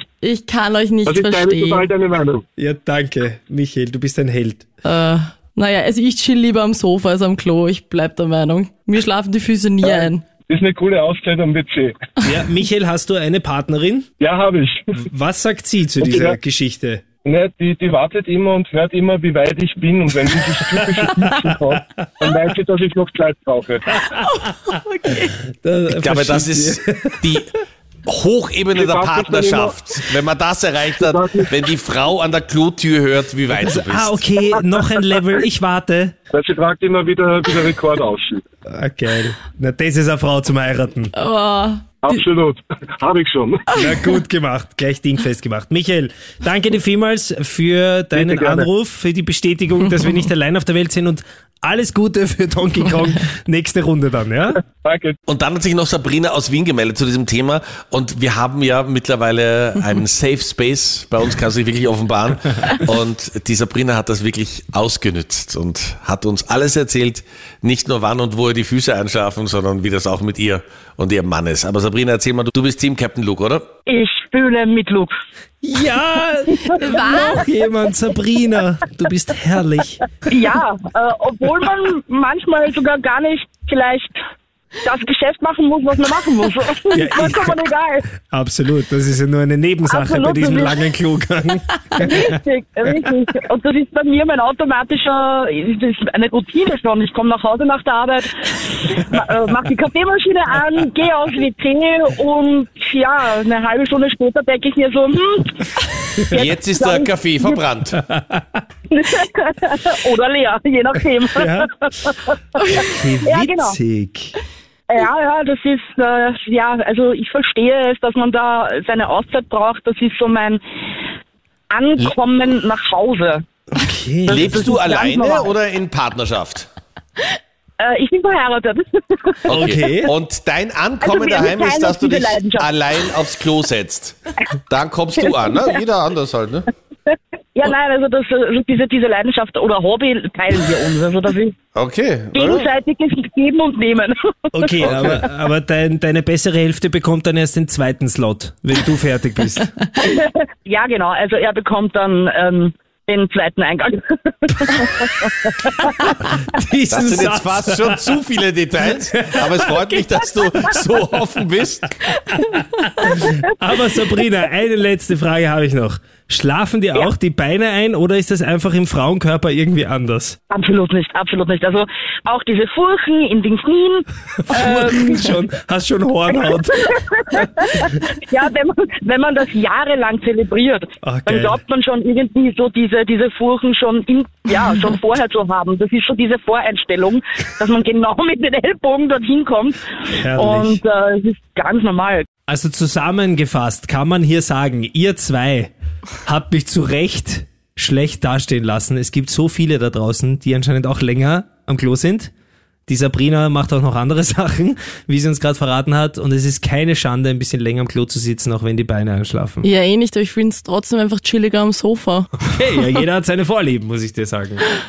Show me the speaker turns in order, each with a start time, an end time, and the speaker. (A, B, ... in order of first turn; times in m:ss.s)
0:00.2-0:01.9 A
0:01.1-0:02.4 B
0:02.6-0:04.7 C
0:04.8-0:10.2 A
0:09.8-0:12.0 B
0:12.2-0:14.1 C
0:14.2-0:15.0 B
0:15.1-0:17.0 C
0:16.0-0:16.4 B
0:17.2-0:23.9 B
0:24.1-0:25.4 A
0:25.5-0:27.2 C
0:26.0-0:27.5 D
0:28.1-0:34.2 D
0:28.7-0:29.9 B
0:31.0-0:31.5 B
0:33.6-0:36.2 C
0:36.3-0:38.4 B
0:38.7-0:41.1 C
0:41.1-0:42.2 A
0:42.0-0:43.7 B
0:43.8-0:54.6 C
0:48.2-0:48.7 B
0:54.8-0:55.2 B
0:55.3-1:13.7 D
1:13.9-1:15.1 E
1:15.6-1:20.1 C
1:16.8-1:17.4 A
1:20.3-1:24.1 E
1:24.8-1:28.0 E
1:26.9-1:27.6 C
1:28.3-1:32.4 C
1:29.8-1:30.8 E
1:32.0-1:45.7 E
1:46.2-1:47.6 E
1:46.3-1:48.0 D
1:48.1-1:48.6 C
1:48.9-1:52.6 E
1:51.4-1:51.7 C
1:52.7-1:54.4 C
1:53.2-1:53.8 E
1:54.9-2:00.6 E
2:01.7-2:03.4 E
2:03.7-2:04.8 C
2:04.3-2:06.7 D
2:04.3-2:05.5 E
2:07.8-2:10.0 E
2:09.5-2:14.2 D
2:09.5-2:10.1 C
2:11.0-2:12.7 E
2:14.7-2:16.7 D
2:15.3-2:15.7 E
2:17.6-2:21.6 E
2:21.8-2:22.7 D
2:22.3-2:24.9 E
2:24.5-2:29.7 C
2:24.8-2:25.2 D
2:30.0-2:36.1 E
2:36.3-2:38.2 C
2:36.9-2:41.9 D
2:39.1-2:39.7 C
2:43.0-2:50.4 C
2:50.5-2:55.2 E
2:54.4-2:57.5 C
2:56.5-3:09.8 E
3:01.0-3:01.6 C
3:10.1-3:10.8 C
3:10.4-3:12.3 E
3:12.5-3:15.7 C
3:16.3-3:22.3 C
3:22.9-3:29.7 C
3:29.6-3:33.0 A
3:32.5-3:34.7 C